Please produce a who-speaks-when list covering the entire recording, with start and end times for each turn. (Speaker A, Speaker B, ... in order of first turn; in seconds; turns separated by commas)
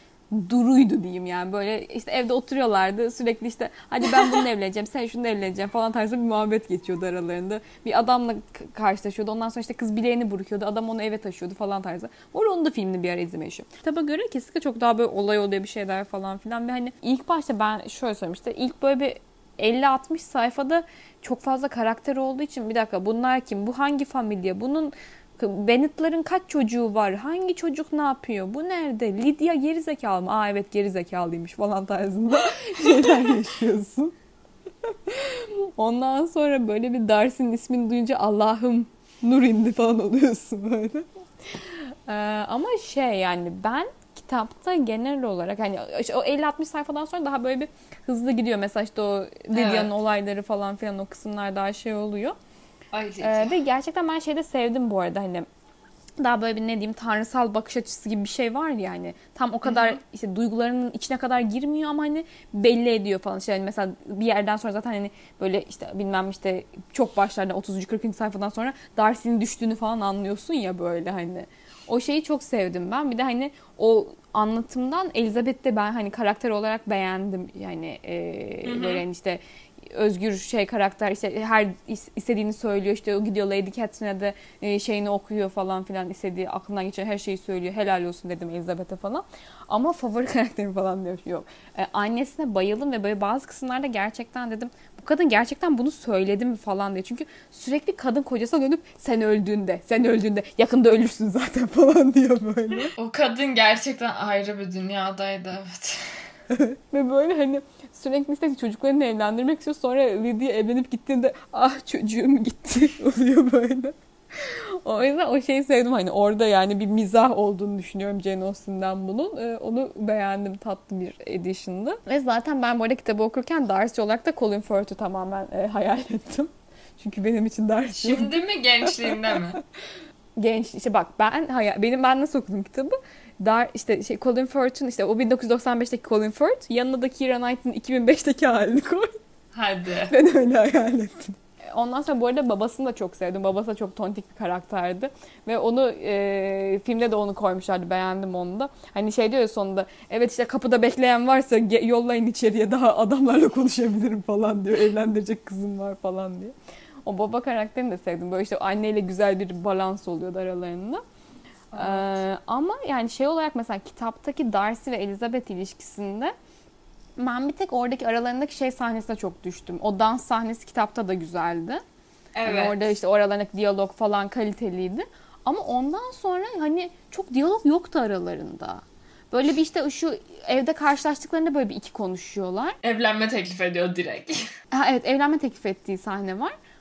Speaker A: 0.3-34.1, Speaker A: 34.8-52.4, Speaker B: 49.5-49.9, Speaker B: 52.9-53.6, Speaker A: 53.2-55.5, Speaker A: 56.2-102.9, Speaker B: 59.6-60.0, Speaker B: 78.6-79.0, Speaker B: 103.0-106.2, Speaker A: 106.5-129.4, Speaker B: 127.9-129.6, Speaker A: 130.4-139.1, Speaker B: 139.5-140.1, Speaker A: 140.1-161.0, Speaker B: 161.7-162.1, Speaker A: 161.7-166.3, Speaker A: 167.2-171.8, Speaker B: 172.3-172.9, Speaker A: 172.4-182.8, Speaker B: 182.8-184.4, Speaker A: 184.7-186.5